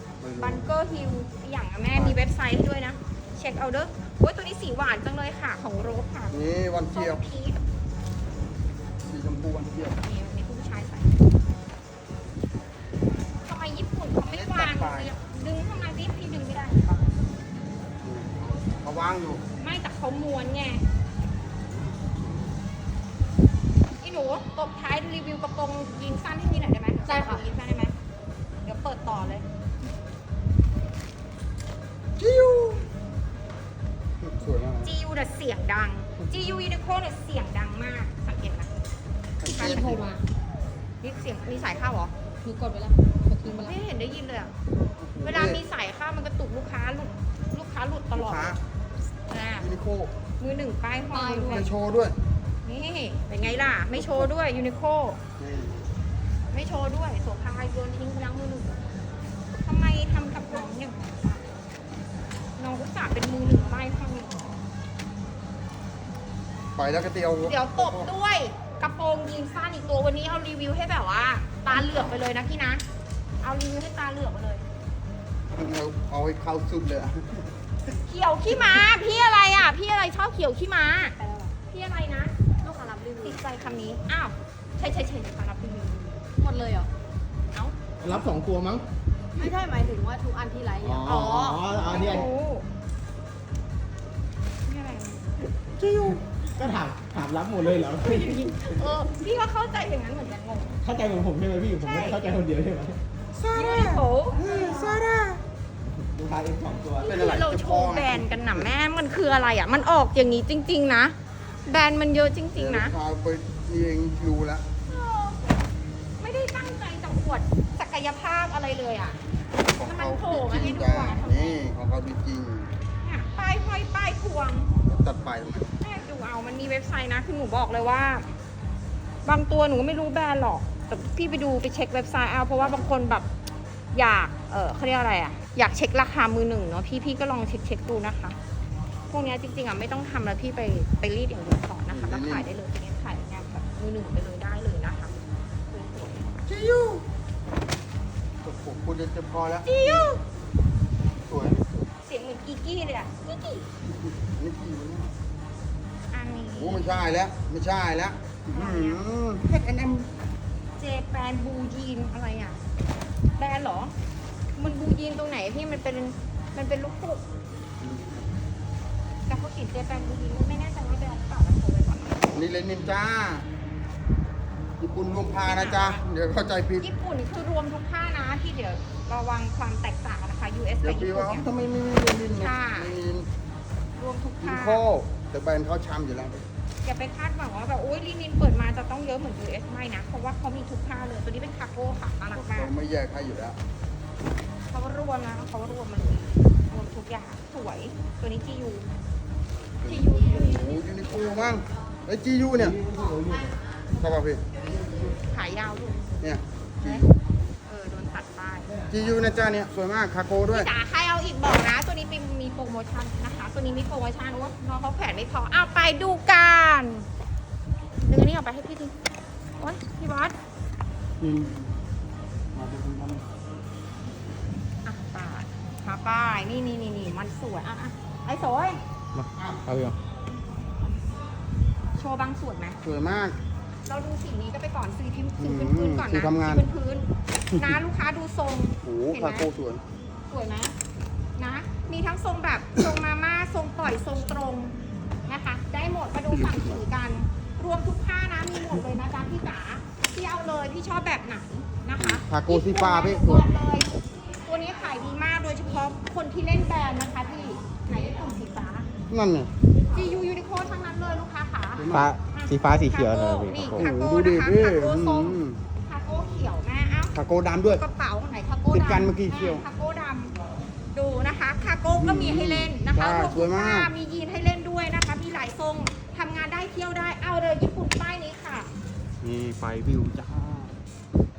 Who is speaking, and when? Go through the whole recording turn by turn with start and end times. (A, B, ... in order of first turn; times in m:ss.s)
0:00.2-0:00.7 A
0:00.4-0:06.3 B
0:01.9-0:02.2 A
0:06.3-0:07.2 A
0:06.9-0:07.6 B
0:09.0-0:10.0 A
0:10.0-0:11.2 B
0:13.4-0:17.0 B
0:14.2-0:15.1 A
0:18.0-0:19.4 A
0:19.6-0:20.8 B
0:21.6-0:22.5 A
0:24.0-0:27.9 B
0:27.1-0:27.4 C
0:28.6-0:29.4 B
0:32.2-0:32.9 A
0:34.2-0:34.9 A
0:34.8-0:38.7 B
0:39.4-0:40.1 A
0:39.5-0:40.0 B
0:39.6-0:40.2 C
0:41.0-0:42.1 B
0:42.4-0:43.8 C
0:43.4-0:44.5 B
0:45.0-0:45.6 A
0:45.2-0:48.6 B
0:48.1-0:48.6 A
0:49.3-0:49.7 B
0:49.6-0:50.1 A
0:50.4-0:51.7 B
0:51.1-0:51.7 C
0:51.4-0:52.2 A
0:52.6-0:55.2 B
0:53.4-0:54.3 A
0:55.4-0:55.8 A
0:56.5-0:58.8 B
0:59.6-1:01.5 B
1:02.6-1:04.6 B
1:06.8-1:08.1 A
1:07.4-1:12.8 B
1:11.7-1:12.2 A
1:13.4-1:14.7 B
1:15.5-1:17.5 A
1:18.0-1:22.3 B
1:21.2-1:21.5 C
1:22.6-1:23.4 C
1:23.2-1:26.3 B
1:26.3-1:26.9 C
1:28.0-1:28.8 D
1:29.3-1:32.1 C
1:29.4-1:29.8 D
1:30.8-1:32.3 D
1:31.0-1:32.7 B
1:34.6-1:35.5 B
1:35.8-1:36.2 A
1:36.0-1:38.9 D
1:38.0-1:40.8 B
1:40.8-1:43.0 D
1:41.8-1:42.2 B
1:43.3-1:45.4 A
1:43.5-1:44.4 B
1:46.0-1:47.1 D
1:47.0-1:53.0 B
1:47.0-1:48.7 A
1:52.5-1:54.6 A
1:54.9-1:55.4 B
1:56.2-1:59.2 B
1:59.7-2:02.7 A
1:59.8-2:01.6 B
2:03.0-2:04.7 B
2:04.8-2:05.7 A
2:05.8-2:08.3 B
2:09.2-2:13.3 B
2:12.6-2:12.9 A
2:13.9-2:18.4 B
2:19.1-2:25.2 B
2:21.9-2:22.5 A
2:25.7-2:26.3 B
2:26.4-2:27.0 A
2:28.4-2:30.1 A
2:29.6-2:30.2 B
2:31.3-2:31.6 A
2:32.0-2:33.7 B
2:33.8-2:35.1 A
2:36.1-2:37.0 B
2:36.6-2:40.1 A
2:38.5-2:39.0 B
2:40.8-2:42.6 B
2:43.4-2:43.9 B
2:44.6-2:47.2 B
2:47.8-2:48.3 A
2:49.3-2:52.2 B
2:52.3-2:53.5 A
2:54.8-2:56.9 A
2:55.4-2:56.0 B
2:56.8-3:01.5 B
3:00.8-3:03.3 A
3:02.4-3:03.0 B
3:03.9-3:04.8 B
3:04.4-3:06.4 A
3:06.8-3:12.7 B
3:12.3-3:13.6 A
3:14.7-3:18.9 B
3:19.8-3:22.8 A
3:20.1-3:20.6 B
3:22.6-3:23.6 D
3:23.9-3:24.4 A
3:25.2-3:26.2 B
3:26.2-3:27.1 A
3:27.6-3:28.8 B
3:28.9-3:30.7 A
3:30.5-3:37.1 B
3:38.0-3:38.9 B
3:39.6-3:40.4 B
3:41.2-3:41.8 A
3:42.5-3:43.2 A
3:44.8-3:48.8 B
3:49.2-3:50.0 D
3:49.3-3:49.7 A
3:51.9-3:52.8 B
3:52.8-3:53.4 A
3:53.9-3:59.5 B
3:55.4-3:56.7 A
3:57.5-3:57.8 A
3:58.8-3:59.8 A
4:00.3-4:00.7 B
4:01.4-4:13.9 B
4:06.3-4:06.8 A
4:12.0-4:13.5 A
4:14.4-4:18.9 B
4:19.1-4:19.5 A
4:19.9-4:30.4 B
4:21.8-4:22.2 A
4:21.9-4:23.9 D
4:23.7-4:25.6 A
4:27.1-4:27.8 A
4:28.7-4:29.6 A
4:30.9-4:38.7 B
4:31.9-4:33.9 A
4:39.2-4:40.8 A